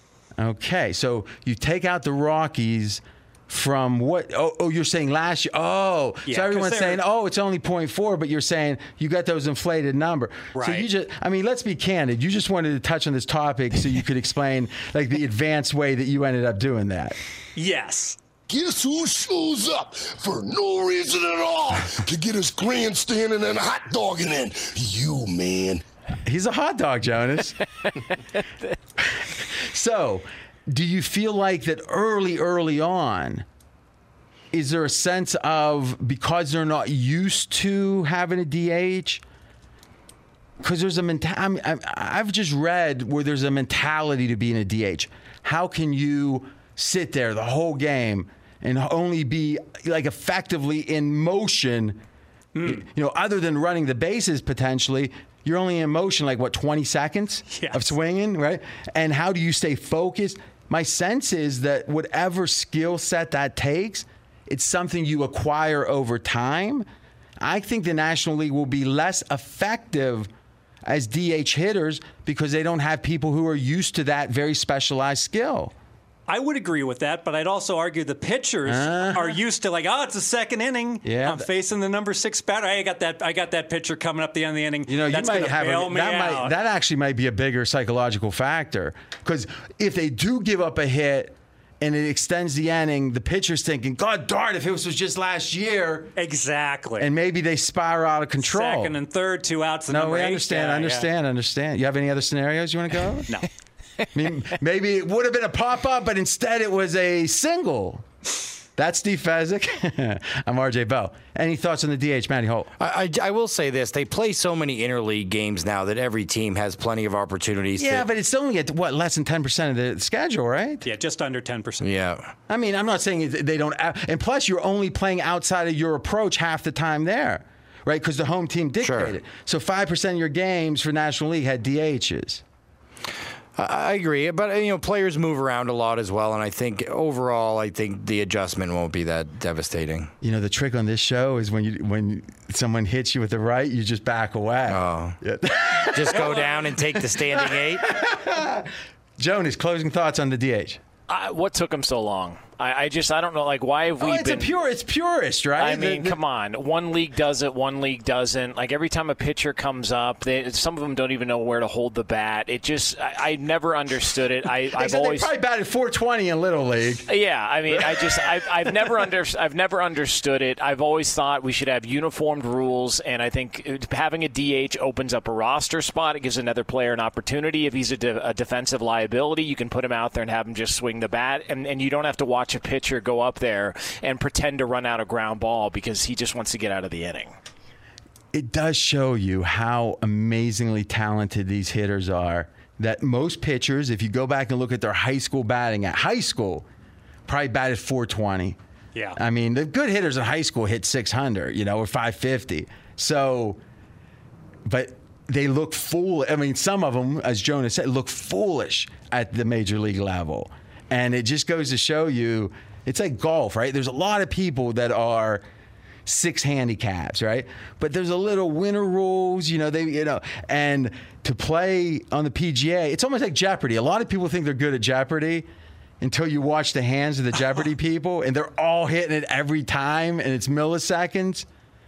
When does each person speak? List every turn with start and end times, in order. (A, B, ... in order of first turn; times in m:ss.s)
0:00.4-0:17.2 A
0:06.3-0:07.0 B
0:10.5-0:10.9 B
0:17.6-0:18.2 B
0:18.5-0:25.8 C
0:26.2-0:27.6 A
0:29.0-0:33.4 A
0:34.5-0:39.2 A
0:40.6-0:52.0 A
0:52.6-0:52.8 B
0:52.6-1:06.9 A
0:57.5-0:58.0 B
1:07.4-1:10.3 A
1:10.8-1:15.7 A
1:16.3-1:26.6 B
1:18.7-1:19.4 A
1:21.0-1:21.5 A
1:24.9-1:36.1 A
1:36.2-1:37.1 B
1:37.0-1:39.0 A
1:38.4-1:41.1 B
1:39.9-1:43.3 A
1:44.1-1:48.0 A
1:48.8-1:52.7 A
1:52.8-1:58.0 D
1:57.8-2:00.8 A
2:00.8-2:01.9 B
2:01.8-2:02.3 D
2:02.5-2:12.4 A
2:08.8-2:09.1 D
2:13.6-2:20.1 D
2:20.2-2:30.8 A
2:24.7-2:25.2 D
2:26.0-2:27.9 D
2:31.1-2:34.6 E
2:34.0-2:36.2 A
2:35.6-2:45.3 E
2:44.8-2:47.1 A
2:47.1-3:07.4 E
2:47.7-2:48.9 A
3:08.3-3:16.7 A
3:17.3-3:18.6 A
3:19.2-3:23.6 A
3:24.7-3:35.4 A
3:36.1-3:45.5 A
3:46.0-3:51.5 A